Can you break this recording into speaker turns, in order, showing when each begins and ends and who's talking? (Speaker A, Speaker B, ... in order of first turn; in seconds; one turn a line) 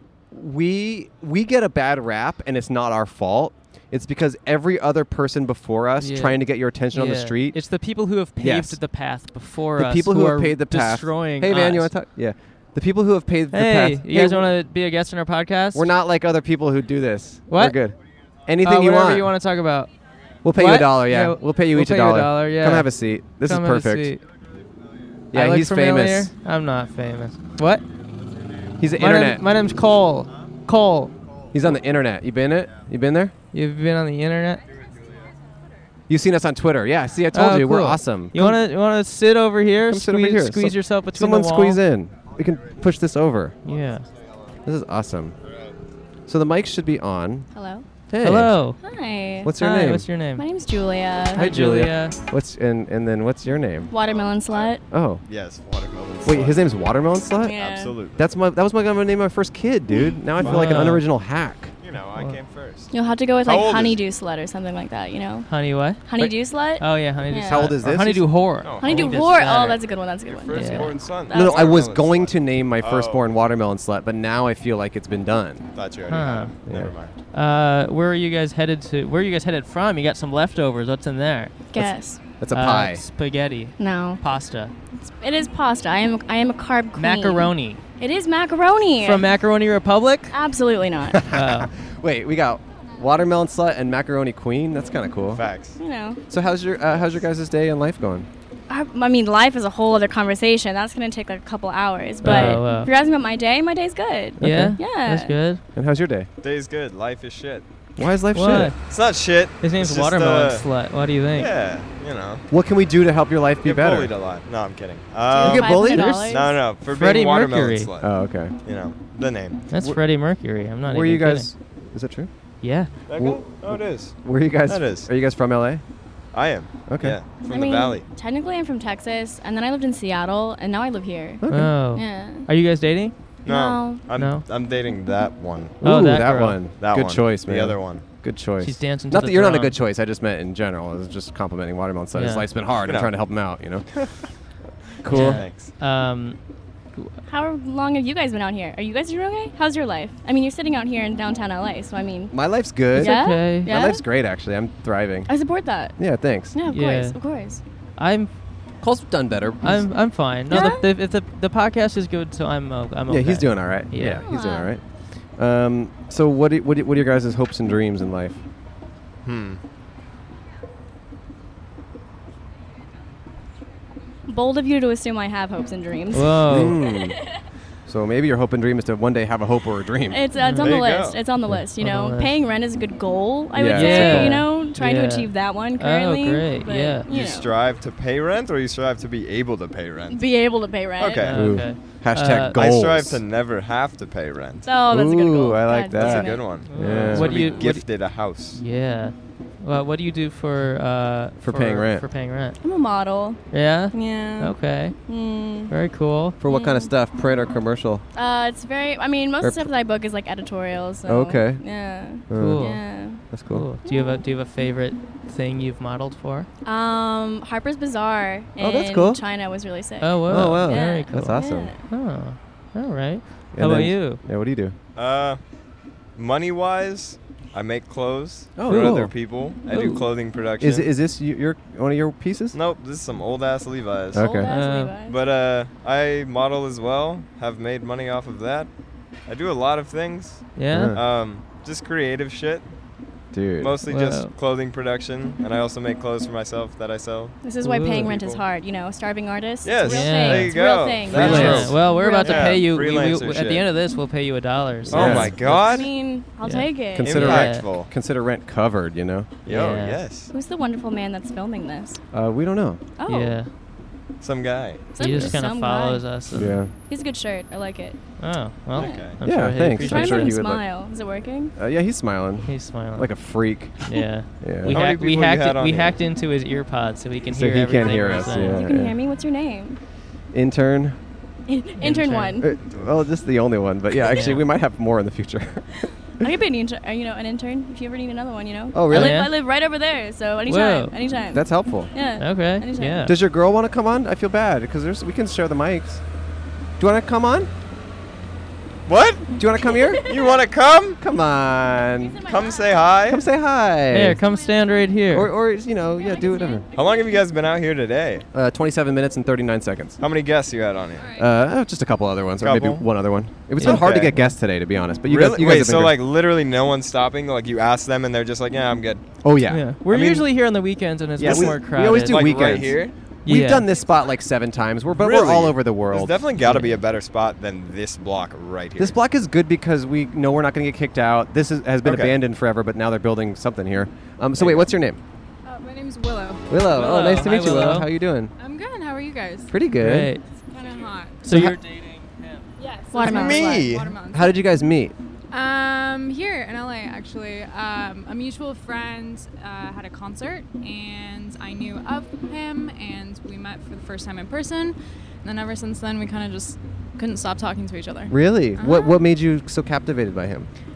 Speaker A: 0.3-7.6
Speaker B: 6.0-11.9
Speaker A: 8.4-8.8
Speaker A: 9.7-14.5
Speaker B: 13.5-15.9
Speaker A: 15.7-19.3
Speaker B: 17.5-17.8
Speaker B: 18.6-19.9
Speaker A: 20.4-24.1
Speaker B: 20.5-24.2
Speaker A: 25.3-26.3
Speaker B: 25.3-27.8
Speaker A: 28.8-29.4
Speaker B: 28.9-31.1
Speaker A: 31.5-33.3
Speaker B: 33.5-34.6
Speaker A: 36.1-38.6
Speaker B: 37.3-41.8
Speaker A: 39.9-43.6
Speaker B: 43.6-44.1
Speaker A: 44.6-45.4
Speaker A: 46.3-47.5
Speaker C: 47.5-47.8
Speaker A: 48.1-48.6
Speaker B: 48.1-48.8
Speaker C: 48.8-49.5
Speaker A: 49.4-50.1
Speaker B: 49.5-50.4
Speaker C: 50.4-51.5
Speaker B: 51.3-52.1
Speaker A: 51.3-53.9
Speaker C: 53.9-54.8
Speaker D: 54.0-56.7
Speaker A: 54.9-55.2
Speaker A: 56.2-61.7
Speaker C: 57.4-58.0
Speaker D: 57.5-58.2
Speaker B: 60.4-61.1
Speaker D: 60.4-60.8
Speaker D: 61.8-64.0
Speaker C: 62.9-67.7
Speaker B: 65.5-66.0
Speaker B: 66.8-69.8
Speaker A: 67.4-68.4
Speaker D: 68.6-69.7
Speaker C: 68.8-71.8
Speaker D: 70.2-73.2
Speaker B: 70.5-70.9
Speaker A: 71.3-75.7
Speaker D: 75.7-77.1
Speaker B: 76.1-76.5
Speaker B: 77.3-81.7
Speaker C: 81.7-82.2
Speaker A: 81.8-83.0
Speaker B: 82.5-84.7
Speaker C: 83.8-84.2
Speaker C: 85.2-89.3
Speaker B: 87.0-87.8
Speaker B: 89.0-90.3
Speaker C: 90.3-91.2
Speaker A: 91.1-95.4
Speaker B: 91.3-91.7
Speaker D: 95.3-95.8
Speaker C: 95.8-96.2
Speaker A: 96.3-98.3
Speaker C: 98.7-105.3
Speaker A: 102.2-102.7
Speaker B: 102.2-102.9
Speaker A: 104.4-104.8
Speaker B: 104.4-105.6
Speaker A: 105.7-106.3
Speaker D: 106.4-107.7
Speaker A: 108.0-108.7
Speaker B: 108.3-108.8
Speaker D: 108.9-110.7
Speaker B: 109.6-111.5
Speaker D: 111.3-112.4
Speaker A: 112.5-114.1
Speaker D: 113.6-118.1
Speaker C: 115.3-116.6
Speaker A: 115.4-116.3
Speaker B: 115.9-117.9
Speaker A: 118.0-118.5
Speaker D: 118.6-119.6
Speaker B: 119.7-121.5
Speaker A: 120.8-122.3
Speaker B: 122.6-122.9
Speaker D: 123.1-124.1
Speaker A: 123.1-125.8
Speaker D: 124.7-125.1
Speaker D: 126.3-128.1
Speaker A: 126.9-127.2
Speaker C: 127.5-132.5
Speaker A: 131.4-131.8
Speaker B: 131.5-133.1
Speaker C: 133.4-134.0
Speaker D: 133.4-135.8
Speaker B: 134.1-134.4
Speaker B: 135.8-136.6
Speaker A: 135.8-144.1
Speaker D: 136.8-138.0
Speaker B: 138.6-139.8
Speaker B: 142.1-142.5
Speaker D: 142.8-143.1
Speaker A: 145.0-145.4
Speaker B: 145.1-146.4
Speaker D: 145.1-145.7
Speaker C: 147.3-154.0
Speaker A: 152.3-155.3
Speaker B: 152.9-153.7
Speaker C: 155.3-156.0
Speaker A: 156.0-156.6
Speaker C: 156.5-157.6
Speaker B: 156.7-157.2
Speaker B: 158.0-158.3
Speaker A: 158.8-159.9
Speaker B: 159.6-164.2
Speaker C: 160.5-160.8
Speaker A: 163.1-168.4
Speaker C: 164.2-164.7
Speaker D: 169.2-169.6
Speaker C: 174.3-177.0
Speaker B: 176.1-176.8
Speaker A: 176.5-177.2
Speaker A: 177.8-180.2
Speaker C: 180.1-187.5
Speaker B: 180.4-180.7
Speaker D: 180.6-181.2
Speaker B: 181.5-182.3
Speaker A: 183.5-184.5
Speaker B: 183.7-187.1
Speaker D: 187.1-190.2
Speaker C: 190.1-191.3
Speaker D: 191.0-191.4
Speaker B: 191.2-192.6
Speaker A: 191.3-193.2
Speaker D: 192.5-194.7
Speaker C: 194.6-196.6
Speaker A: 194.9-197.4
Speaker D: 195.9-198.6
Speaker B: 196.6-197.8
Speaker C: 197.2-197.6
Speaker B: 198.5-202.6
Speaker A: 201.4-202.1
Speaker C: 202.6-205.7
Speaker B: 203.5-205.0
Speaker B: 205.7-206.4
Speaker A: 206.4-208.0
Speaker C: 206.4-206.9
Speaker C: 208.1-213.2
Speaker A: 209.4-209.7
Speaker A: 211.1-211.6
Speaker A: 212.3-213.7
Speaker B: 212.3-216.5
Speaker C: 213.8-214.2
Speaker C: 216.6-221.8
Speaker A: 218.6-219.2
Speaker B: 220.0-224.2
Speaker A: 220.3-221.7
Speaker A: 223.5-224.7
Speaker D: 224.9-225.4
Speaker D: 226.2-230.9
Speaker A: 228.6-229.2
Speaker B: 228.7-228.9
Speaker B: 229.7-230.0
Speaker A: 230.6-232.6
Speaker D: 232.5-234.4
Speaker A: 234.1-234.5
Speaker C: 234.1-235.2
Speaker B: 234.5-234.9
Speaker D: 235.1-238.7
Speaker D: 239.2-242.7
Speaker B: 240.6-240.9
Speaker A: 240.7-241.0
Speaker A: 243.3-243.8
Speaker D: 243.6-247.4
Speaker B: 243.9-244.3
Speaker C: 247.4-252.6
Speaker B: 247.6-248.1
Speaker D: 248.0-248.4
Speaker D: 249.6-253.7
Speaker B: 249.8-255.8
Speaker A: 251.1-251.7
Speaker A: 254.9-255.4
Speaker D: 254.9-255.9
Speaker C: 255.4-257.2
Speaker B: 256.4-257.7
Speaker A: 256.9-259.4
Speaker D: 257.0-257.9
Speaker D: 259.4-260.3
Speaker B: 259.4-260.0
Speaker C: 260.3-262.0
Speaker A: 262.1-262.8
Speaker C: 263.0-263.4
Speaker B: 263.1-263.5
Speaker D: 264.2-264.9
Speaker C: 264.9-266.1
Speaker B: 265.0-266.6
Speaker A: 266.3-266.7
Speaker C: 266.8-268.0
Speaker B: 268.2-270.3
Speaker D: 268.7-269.2
Speaker C: 268.8-269.1
Speaker A: 269.2-270.6
Speaker C: 269.7-271.5
Speaker A: 271.6-273.8
Speaker B: 272.5-273.1
Speaker B: 273.8-278.6
Speaker A: 274.4-274.8
Speaker D: 274.7-276.0
Speaker A: 277.2-279.0
Speaker C: 278.3-279.8
Speaker A: 280.3-281.0
Speaker C: 281.5-282.5
Speaker B: 281.8-282.4
Speaker A: 282.4-285.7
Speaker B: 284.1-284.4
Speaker C: 286.2-293.1
Speaker A: 288.7-289.3
Speaker B: 288.9-289.3
Speaker B: 290.5-290.9
Speaker A: 291.3-291.9
Speaker B: 292.2-293.1
Speaker A: 293.1-296.0
Speaker A: 296.8-297.5
Speaker D: 298.9-299.4
Speaker A: 299.4-300.1
Speaker C: 299.4-300.4
Speaker D: 300.0-301.0
Speaker A: 301.0-302.2
Speaker C: 302.0-303.1
Speaker D: 302.2-303.2
Speaker A: 303.1-304.2
Speaker B: 303.9-305.3
Speaker A: 305.1-306.6
Speaker C: 306.0-306.8
Speaker D: 306.7-308.2
Speaker A: 308.3-310.0
Speaker D: 310.0-311.1
Speaker E: 311.0-311.3
Speaker A: 311.2-316.0
Speaker D: 312.4-312.9
Speaker D: 313.6-314.2
Speaker B: 313.6-314.3
Speaker D: 315.0-319.0
Speaker A: 319.2-320.2
Speaker B: 319.5-322.2
Speaker D: 321.2-322.9
Speaker A: 321.2-326.3
Speaker B: 323.2-323.7
Speaker D: 324.9-328.9
Speaker B: 326.4-326.7
Speaker A: 328.8-335.0
Speaker D: 331.8-332.2
Speaker D: 334.4-334.7
Speaker E: 335.4-336.5
Speaker A: 336.5-338.3
Speaker B: 336.7-337.9
Speaker E: 338.4-339.5
Speaker A: 339.5-340.1
Speaker B: 339.8-340.2
Speaker E: 340.5-341.3
Speaker B: 341.2-341.6
Speaker A: 341.3-341.6
Speaker E: 342.6-344.4
Speaker C: 342.9-343.7
Speaker D: 343.0-343.9
Speaker A: 344.1-344.9
Speaker E: 345.3-359.0
Speaker A: 358.1-360.5